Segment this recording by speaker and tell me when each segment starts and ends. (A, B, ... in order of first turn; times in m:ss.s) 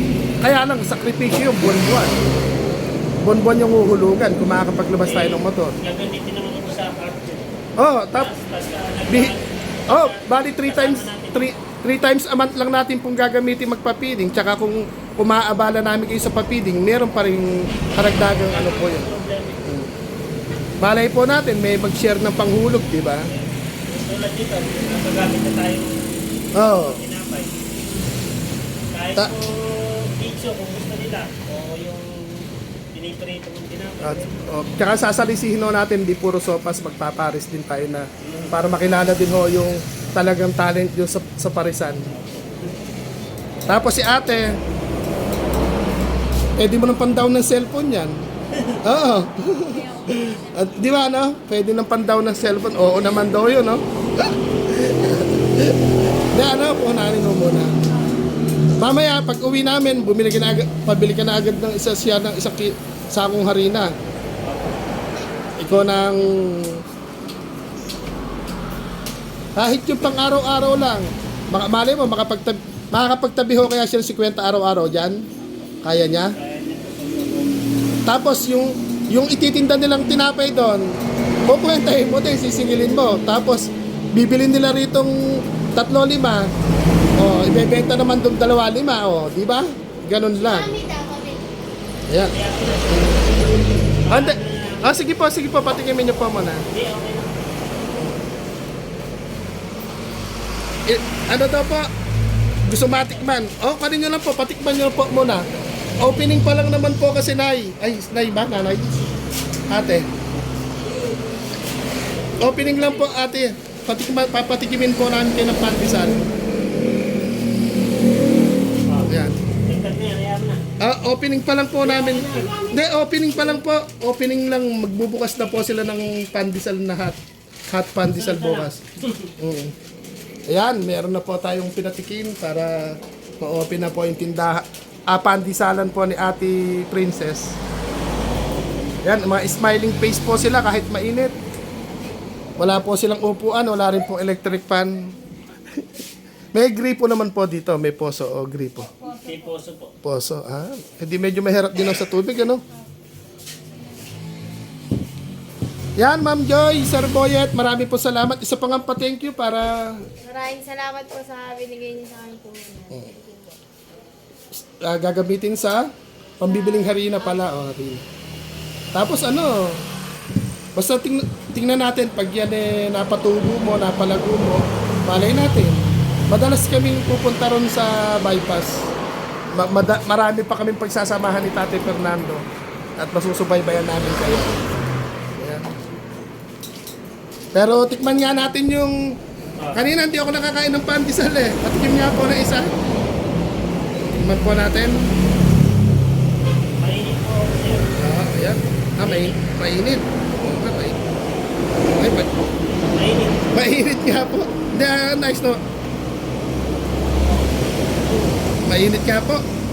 0:00.4-0:02.1 A
0:03.2-0:05.7 A
0:05.0-0:07.5 B
0:07.8-0:08.3 A
0:08.1-0:11.5 B
0:09.1-0:09.3 A
0:09.9-0:19.1 A
0:18.2-0:19.8 B
0:19.6-0:19.9 A
0:20.8-0:23.3 A
0:23.2-0:27.6 B
0:26.5-0:27.0 A
0:28.9-0:34.5 B
0:34.0-0:42.0 A
0:38.2-0:38.6 B
0:42.1-0:42.6 B
0:43.7-0:44.6 A
0:46.6-0:48.2 A
0:48.8-0:55.8 A
0:49.6-0:50.7 C
0:56.3-0:57.7 A
0:58.8-1:03.9 A
1:04.4-1:05.1 B
1:05.6-1:06.8 A
1:05.6-1:06.1 B
1:09.6-1:15.2 A
1:15.8-1:16.3 A
1:16.2-1:17.6 B
1:18.0-1:20.8 A
1:21.4-1:26.5 A
1:27.2-1:30.8 A
1:30.4-1:31.5 C
1:32.1-1:32.3 A
1:32.2-1:33.4 B
1:32.9-1:33.2 A
1:34.0-1:35.0 B
1:34.1-1:36.6 A
1:36.7-1:37.5 B
1:38.0-1:38.2 A
1:40.9-1:41.9 A
1:42.7-1:45.4 A
1:46.0-1:49.0 A
1:49.7-1:50.1 A
1:52.4-1:56.2 A
1:52.4-1:53.1 B
1:58.9-2:00.6 B
1:59.1-1:59.3 A
2:00.8-2:07.2 A
2:01.8-2:02.6 B
2:07.7-2:08.8 A
2:08.1-2:09.3 B
2:09.4-2:09.7 A
2:10.5-2:17.6 A
2:19.0-2:21.3 A
2:22.6-2:25.1 A
2:26.5-2:28.9 A
2:29.0-2:29.9 B
2:30.0-2:32.6 A
2:36.0-2:40.0 A
2:40.2-2:43.6 C
2:44.6-2:45.9 A
2:46.4-2:48.0 A
2:46.5-2:47.3 C
2:48.9-2:49.8 A
2:50.7-2:55.8 A
2:56.3-2:58.8 A
2:59.5-3:02.4 A
3:03.0-3:04.6 A
3:05.4-3:05.7 A
3:07.5-3:08.9 A
3:09.6-3:09.8 B
3:09.7-3:12.7 A
3:14.2-3:15.1 A
3:16.8-3:17.9 B
3:18.0-3:21.0 A
3:19.0-3:19.4 B
3:21.8-3:22.3 A
3:22.8-3:23.5 B
3:23.5-3:25.6 A
3:28.6-3:29.4 A